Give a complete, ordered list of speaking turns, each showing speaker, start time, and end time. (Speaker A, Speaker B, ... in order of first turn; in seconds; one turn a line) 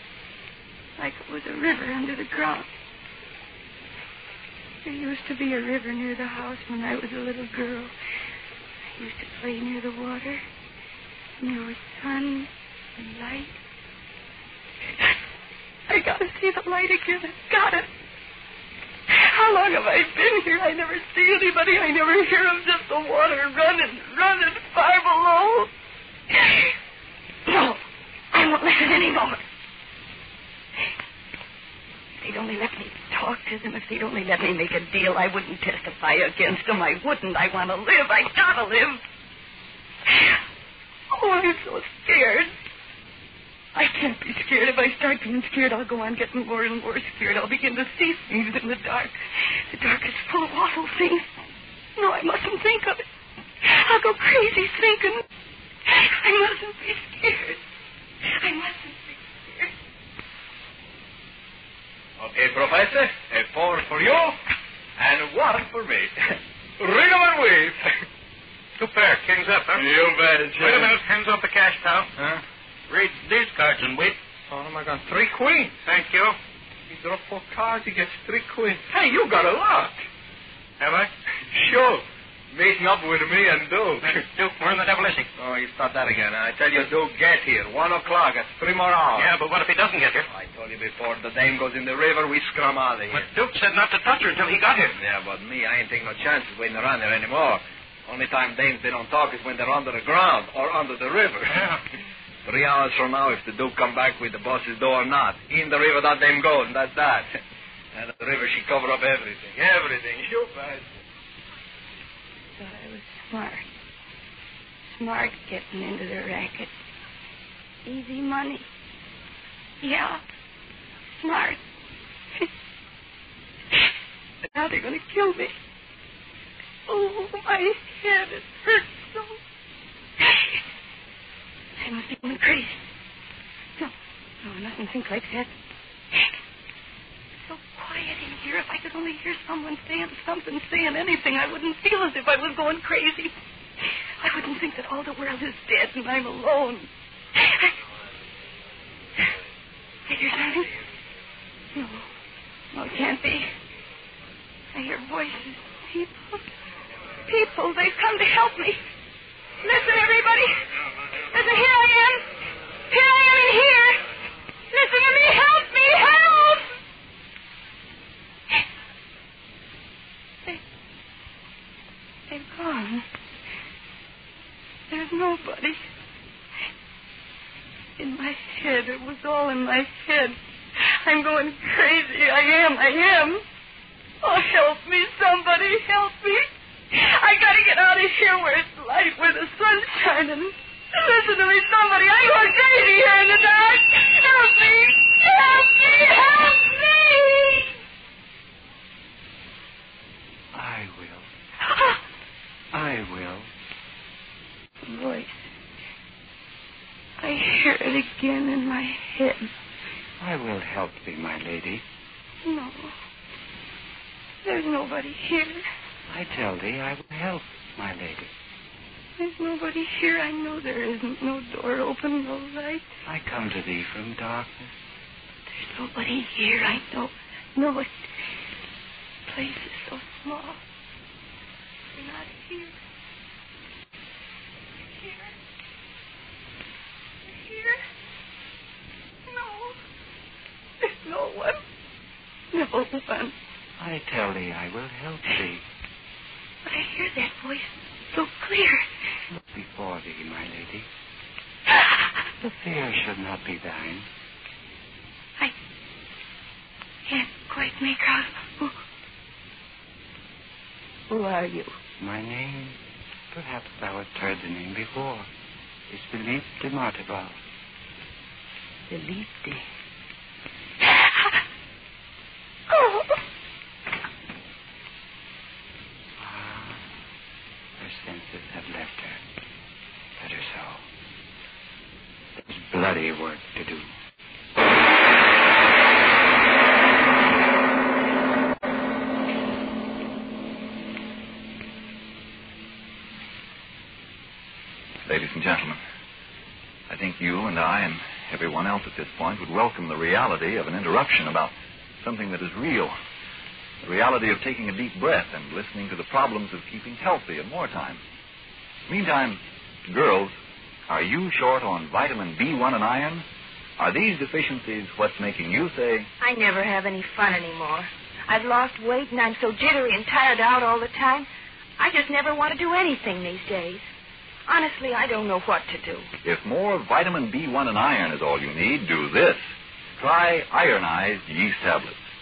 Speaker A: 1.0-2.7
Speaker A: 4.8-7.9
Speaker A: 9.0-10.4
Speaker A: 11.4-13.5
Speaker A: 15.9-17.9
Speaker A: 19.1-25.7
Speaker A: 26.3-26.7
Speaker A: 27.5-27.8
Speaker A: 28.3-29.4
Speaker A: 32.2-39.0
Speaker A: 41.1-42.5
Speaker A: 43.7-49.1
Speaker A: 49.7-51.3
Speaker A: 52.0-53.0
Speaker A: 53.6-55.2
Speaker A: 55.9-57.6
Speaker A: 58.2-59.7
Speaker B: 62.2-64.4
Speaker B: 65.0-67.8
Speaker C: 68.8-70.0
Speaker B: 69.7-70.9
Speaker C: 70.5-72.1
Speaker C: 72.9-74.2
Speaker B: 74.5-75.7
Speaker C: 75.8-76.3
Speaker B: 76.9-80.0
Speaker C: 80.8-81.1
Speaker B: 81.5-84.1
Speaker C: 84.0-85.3
Speaker B: 85.4-89.3
Speaker C: 89.1-90.2
Speaker B: 90.3-93.2
Speaker C: 93.1-95.0
Speaker B: 95.0-101.7
Speaker B: 102.5-107.3
Speaker B: 107.9-110.9
Speaker A: 112.6-113.6
Speaker A: 114.9-116.7
Speaker A: 117.8-118.7
Speaker A: 119.8-120.2
Speaker A: 121.2-121.6
Speaker A: 124.5-125.5
Speaker A: 126.9-129.4
Speaker A: 130.2-130.6
Speaker A: 131.8-132.8
Speaker A: 133.8-135.5
Speaker A: 137.4-143.3
Speaker A: 144.2-147.7
Speaker A: 150.1-150.7
Speaker A: 151.7-152.1
Speaker A: 152.7-153.5
Speaker A: 154.7-156.4
Speaker A: 157.3-158.8
Speaker A: 159.7-160.4
Speaker D: 159.7-160.4
Speaker A: 161.3-162.2
Speaker D: 161.4-162.1
Speaker A: 162.9-164.0
Speaker A: 164.7-166.1
Speaker D: 165.9-166.6
Speaker A: 172.3-173.1
Speaker A: 174.9-175.8
Speaker A: 178.0-180.4
Speaker A: 181.0-183.4
Speaker A: 184.2-197.5
Speaker D: 196.2-197.2
Speaker E: 200.5-201.3
Speaker A: 201.7-202.0
Speaker E: 202.7-203.5
Speaker A: 204.8-205.3
Speaker A: 207.2-209.5
Speaker E: 210.2-211.8
Speaker A: 212.4-212.9
Speaker A: 214.4-215.6
Speaker E: 216.1-218.3
Speaker A: 219.2-222.9
Speaker E: 223.0-224.7
Speaker A: 225.5-227.9
Speaker A: 229.3-230.6
Speaker A: 231.9-232.7
Speaker A: 234.8-235.3
Speaker A: 237.3-237.8
Speaker A: 239.3-239.7
Speaker A: 240.8-241.6
Speaker A: 242.5-243.3
Speaker E: 243.8-245.6
Speaker A: 246.7-248.8
Speaker E: 249.3-250.9
Speaker E: 252.4-254.1
Speaker A: 257.1-258.7
Speaker D: 261.1-261.7
Speaker E: 262.0-262.8
Speaker E: 263.3-265.3
Speaker E: 265.9-267.4
Speaker D: 268.9-269.6
Speaker A: 272.7-273.1
Speaker E: 276.2-276.8
Speaker E: 277.8-279.2
Speaker E: 280.2-280.8
Speaker E: 282.4-283.9
Speaker F: 295.0-295.8
Speaker F: 296.9-302.9
Speaker F: 303.8-308.0
Speaker F: 308.9-310.4
Speaker F: 310.9-313.2
Speaker F: 313.8-316.1
Speaker D: 316.2-321.3
Speaker D: 321.8-323.9
Speaker D: 324.5-326.1
Speaker F: 326.2-332.0